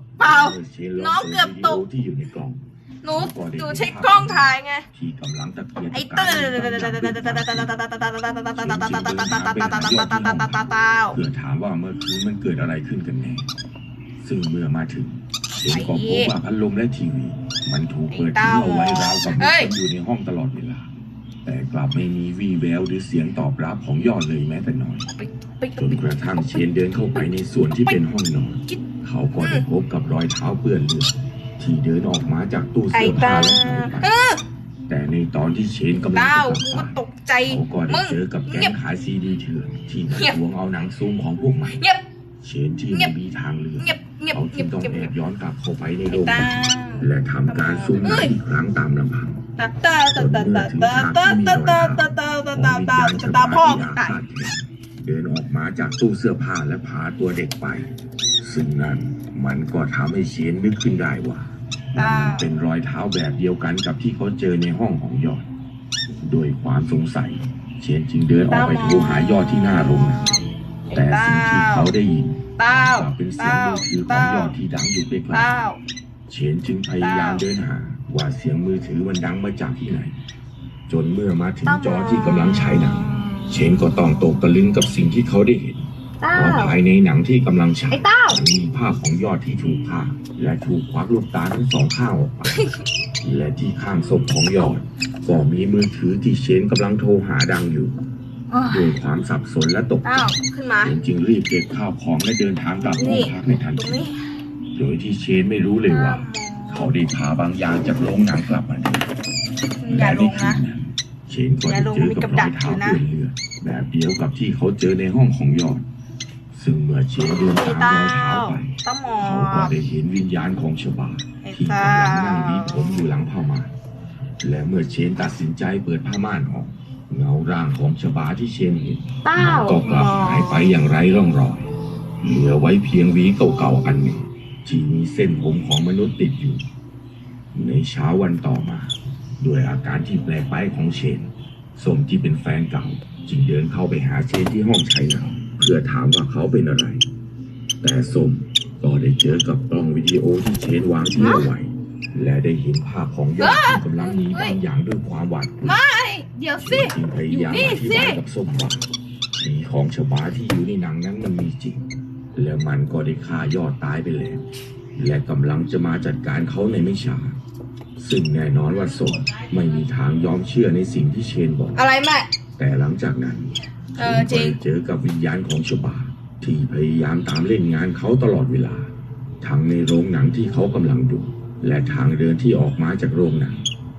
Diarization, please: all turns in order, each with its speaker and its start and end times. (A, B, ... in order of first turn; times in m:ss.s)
0:00.2-0:07.7 A
0:00.2-0:01.8 B
0:03.0-0:04.8 B
0:05.9-0:11.2 B
0:08.6-0:10.5 A
0:11.1-0:13.5 A
0:14.2-0:20.9 A
0:15.6-0:16.3 B
0:18.1-0:19.7 B
0:21.4-0:25.1 A
0:25.2-0:26.6 B
0:25.8-0:34.1 A
0:29.4-0:29.6 B
0:32.9-0:34.4 B
0:34.9-0:41.8 A
0:36.0-0:38.7 B
0:40.1-0:40.4 B
0:41.7-0:42.0 B
0:42.4-0:46.5 A
0:43.8-0:45.1 B
0:46.1-0:48.3 B
0:47.0-0:49.4 A
0:49.6-0:54.2 B
0:50.1-1:05.5 A
1:02.0-1:02.5 B
1:06.2-1:10.2 A
1:08.5-1:11.9 B
1:10.9-1:15.5 A
1:12.6-1:14.6 B
1:15.3-1:15.8 B
1:16.3-1:20.2 A
1:17.0-1:17.4 B
1:20.9-1:32.7 A
1:21.6-1:24.0 B
1:26.2-1:26.8 B
1:27.9-1:28.4 B
1:33.2-1:38.0 A
1:38.5-1:39.0 B
1:38.7-1:44.1 A
1:40.0-1:41.0 B
1:42.8-1:44.2 B
1:44.7-1:49.1 A
1:45.9-1:46.9 B
1:49.8-1:50.6 B
1:49.9-1:55.8 A
1:51.7-1:53.0 B
1:56.5-2:03.7 A
1:57.4-1:59.7 B
2:01.4-2:03.1 B
2:04.4-2:16.6 A
2:09.2-2:10.7 B
2:17.5-2:27.0 A
2:27.8-2:35.8 A
2:31.2-2:31.5 B
2:33.4-2:34.6 B
2:35.6-2:38.2 B
2:36.6-2:47.4 A
2:48.0-2:51.8 A
2:48.7-2:49.8 B
2:51.8-2:52.3 B
2:52.6-3:03.6 A
2:53.9-2:54.6 B